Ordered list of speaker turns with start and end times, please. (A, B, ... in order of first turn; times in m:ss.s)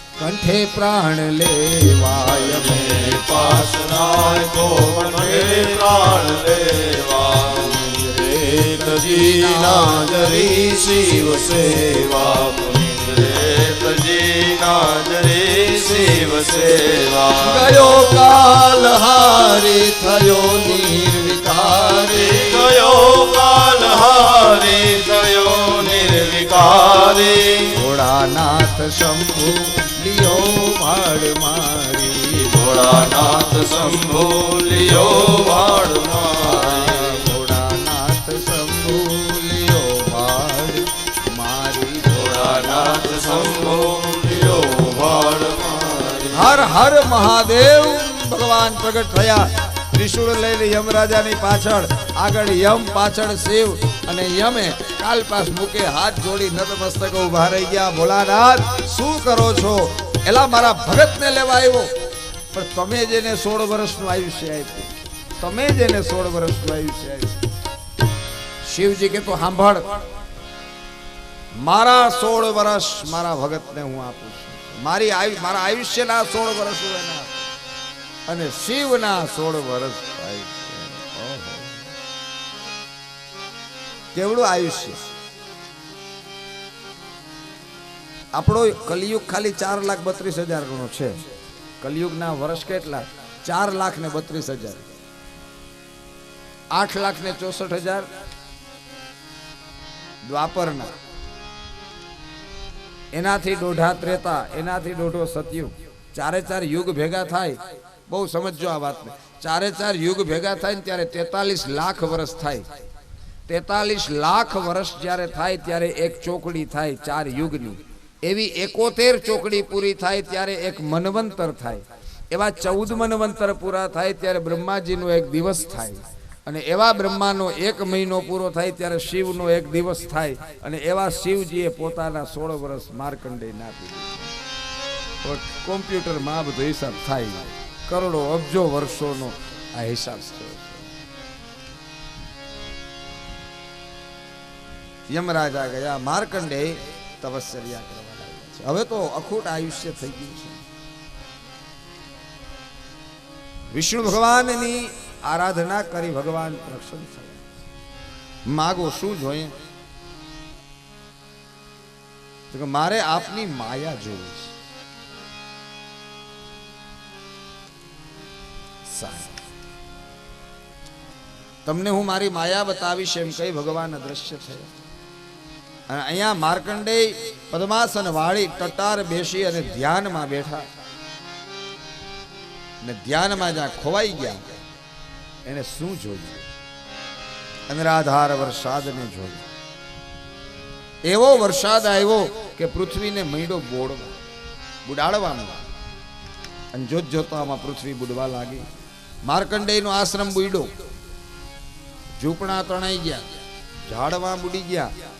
0:00.2-0:03.7 A
0:02.6-0:17.7 B
0:08.7-0:10.8 A
0:17.4-0:22.7 A
0:22.4-0:27.8 B
0:27.7-0:33.9 A
0:32.6-0:37.1 B
0:36.3-0:43.3 A
0:42.1-0:46.5 B
0:46.3-1:01.9 A
1:02.5-1:07.5 A
1:08.6-1:10.0 A
1:11.6-1:17.5 A
1:18.3-1:21.9 A
1:24.1-1:25.0 A
1:28.4-1:31.2 A
1:31.8-1:35.0 A
1:36.7-1:38.1 A
1:40.2-1:40.9 A
1:43.1-1:52.7 A
1:53.5-2:14.4 A
2:15.2-2:21.0 A
2:25.1-2:30.7 A
2:33.7-2:37.4 A
2:38.5-2:39.6 A
2:42.5-2:44.6 A
2:48.8-2:49.4 A
2:51.6-2:54.7 A
2:55.9-3:00.7 A
3:02.8-3:04.5 A
3:05.5-3:06.5 A
3:07.7-3:09.5 A
3:11.1-3:14.2 A
3:14.8-3:15.6 A
3:16.7-3:18.7 A
3:19.2-3:20.7 A
3:22.1-3:23.3 A
3:23.8-3:24.9 A